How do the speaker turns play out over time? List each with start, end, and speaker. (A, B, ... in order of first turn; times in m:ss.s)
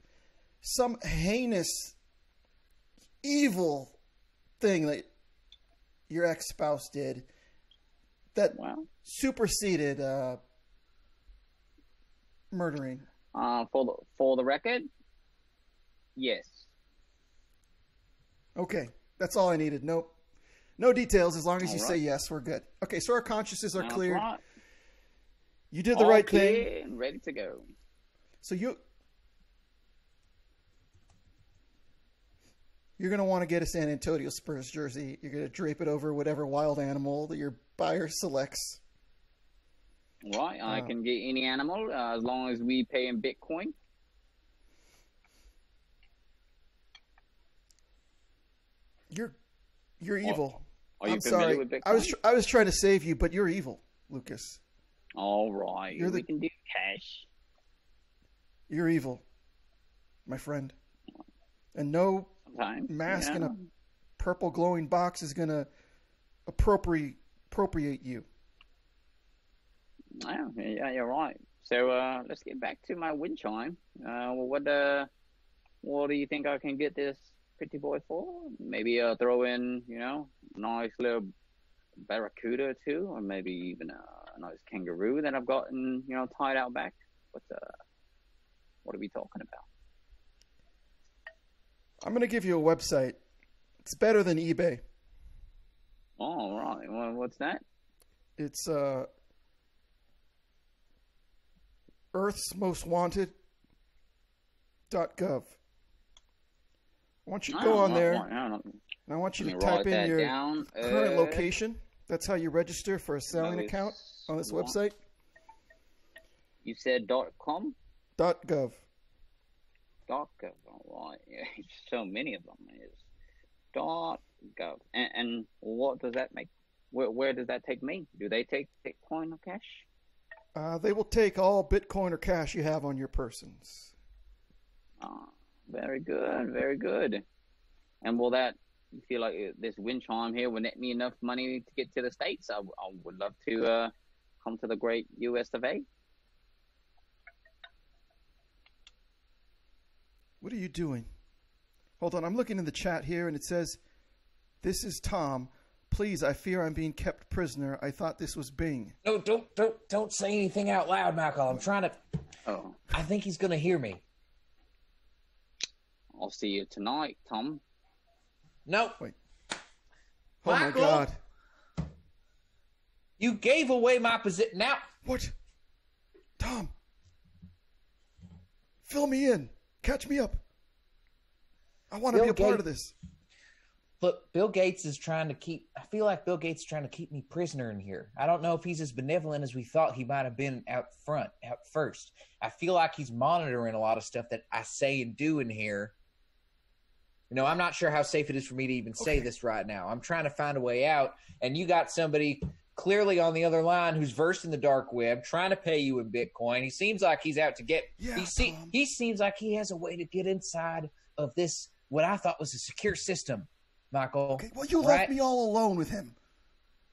0:00.6-0:02.0 A
0:03.2-0:04.0 A
0:04.6-0:05.0 A
0:06.1-0:07.3 A
0:08.3-0:10.4 A
0:08.5-0:08.9 B
0:12.5-0:13.0 A
0:13.3-0:14.9 B
0:16.2-0:16.7 B
0:18.6-0:20.1 A
0:20.8-0:24.2 A
0:21.6-0:22.0 B
0:23.8-0:24.4 B
0:25.7-0:26.7 A
0:25.9-0:27.7 B
0:28.4-0:28.8 A
0:33.0-0:38.8 A
0:40.2-0:43.7 B
0:40.7-0:40.9 A
0:49.1-0:49.4 A
0:50.0-0:54.6 A
0:51.0-0:52.2 B
0:55.2-0:57.3 B
0:55.9-0:56.2 A
0:58.7-0:59.2 A
1:00.2-1:00.7 A
1:01.7-1:03.5 A
1:02.5-1:03.7 B
1:04.2-1:05.7 A
1:06.5-1:08.2 A
1:10.2-1:15.1 B
1:15.8-1:21.3 B
1:22.0-1:27.7 B
1:28.8-1:29.6 B
1:32.0-1:33.2 A
1:33.8-1:34.8 A
1:36.2-1:37.6 B
1:38.4-1:39.1 A
1:42.1-1:43.3 A
1:44.9-1:45.6 A
1:47.2-1:48.2 A
1:47.5-1:48.8 B
1:49.1-1:54.9 A
1:49.4-1:51.5 B
1:53.3-1:54.8 B
1:56.6-1:57.8 B
1:58.2-1:58.8 A
2:00.1-2:03.0 B
2:03.7-2:09.9 B
2:10.5-2:13.9 A
2:15.0-2:17.2 B
2:18.0-2:25.8 B
2:30.4-2:31.1 A
2:32.0-2:33.8 A
2:34.6-2:38.9 A
2:39.0-2:42.0 C
2:42.4-2:42.8 B
2:42.9-2:44.0 C
2:46.1-2:47.6 B
2:48.6-2:49.0 C
2:50.4-2:51.2 A
2:50.4-2:51.1 C
2:53.2-2:54.8 C
2:55.0-2:55.3 A
2:56.4-2:56.7 A
2:58.8-3:00.4 A
3:01.9-3:02.9 A
3:02.1-3:02.6 C
3:04.0-3:15.9 C
3:17.3-3:35.1 C
3:19.0-3:19.3 A
3:28.0-3:28.7 A
3:34.4-3:36.1 A